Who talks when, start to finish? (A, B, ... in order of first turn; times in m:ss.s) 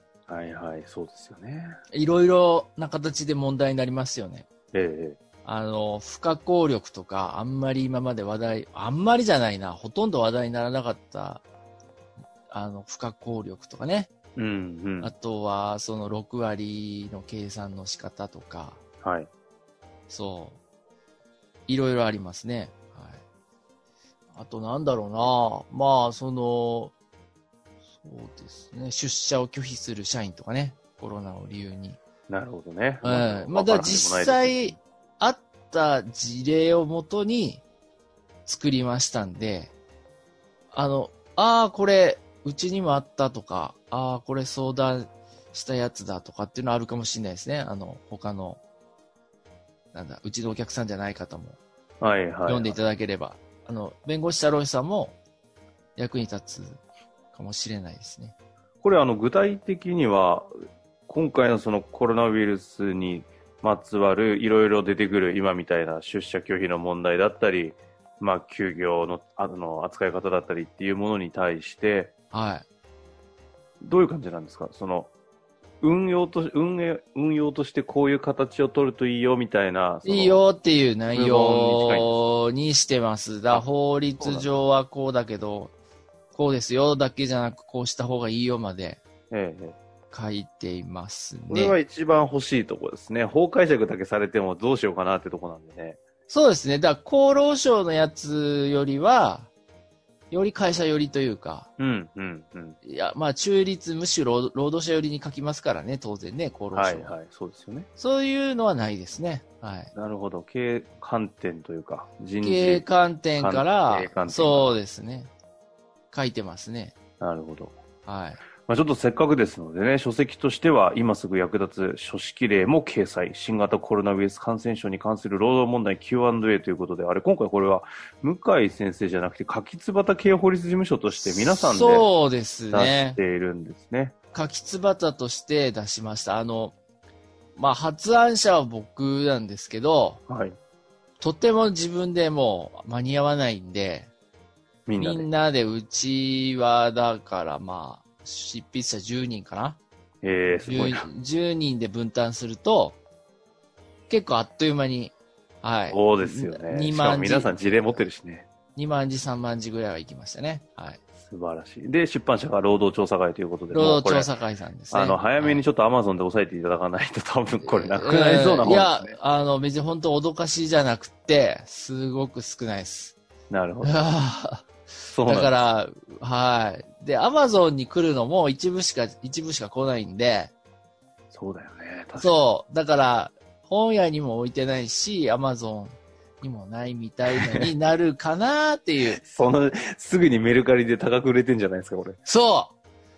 0:00.3-0:01.8 A
0:01.9-0:04.5 B
0:04.7-0:05.2 A
0:05.4-0:11.4 B
0:12.5-0:14.1 B
0:14.4-0:15.1 A
0:15.0-0:18.8 B
0:19.0-0:19.3 A
0:20.1-0:20.6 B
0:21.7-0:23.2 B
0:24.3-0:26.9 B
0:27.9-0:32.0 B
0:32.3-0:34.7 A
0:33.0-0:37.6 B
0:38.4-0:39.7 B
0:40.7-0:48.6 B
0:49.9-0:51.6 B
0:52.0-0:52.8 A
0:52.5-0:55.2 B
0:56.0-0:56.8 B
0:57.3-0:58.3 B
0:58.8-1:00.5 A
1:01.1-1:12.1 A
1:12.3-1:12.7 B
1:13.8-1:15.1 A
1:15.8-1:20.4 A
1:20.0-1:25.7 B
1:21.1-1:22.2 A
1:24.2-1:24.5 A
1:26.3-1:29.0 B
1:29.3-1:29.8 A
1:30.1-1:31.8 B
1:31.5-1:36.0 A
1:36.3-1:39.5 B
1:40.3-1:41.7 B
1:41.8-1:42.8 A
1:42.8-1:47.2 B
1:46.7-1:47.9 A
1:48.0-1:49.9 B
1:50.0-1:52.9 A
1:52.4-1:55.3 B
1:53.4-1:54.8 A
1:56.1-1:57.0 B
1:57.2-1:57.8 A
1:58.0-1:58.4 B
1:58.6-2:12.1 A
2:11.2-2:13.2 B
2:12.7-2:14.1 A
2:14.3-2:16.8 B
2:17.6-2:20.2 B
2:20.3-2:20.6 A
2:21.2-2:24.1 B
2:24.9-2:25.3 A
2:25.0-2:29.8 B
2:30.2-2:31.1 A
2:30.6-2:33.0 B
2:34.1-2:37.8 B
2:35.9-2:38.5 A
2:38.8-2:41.0 B
2:41.2-2:44.3 A
2:43.7-2:45.6 B
2:44.9-2:49.2 A
2:47.6-2:53.2 B
2:53.5-2:54.1 A
2:53.8-2:54.7 B
2:55.1-2:55.6 A
2:55.2-3:00.5 B
3:01.3-3:02.4 A
3:02.2-3:09.2 B
3:07.3-3:07.7 A
3:09.1-3:12.2 A
3:12.2-3:12.8 B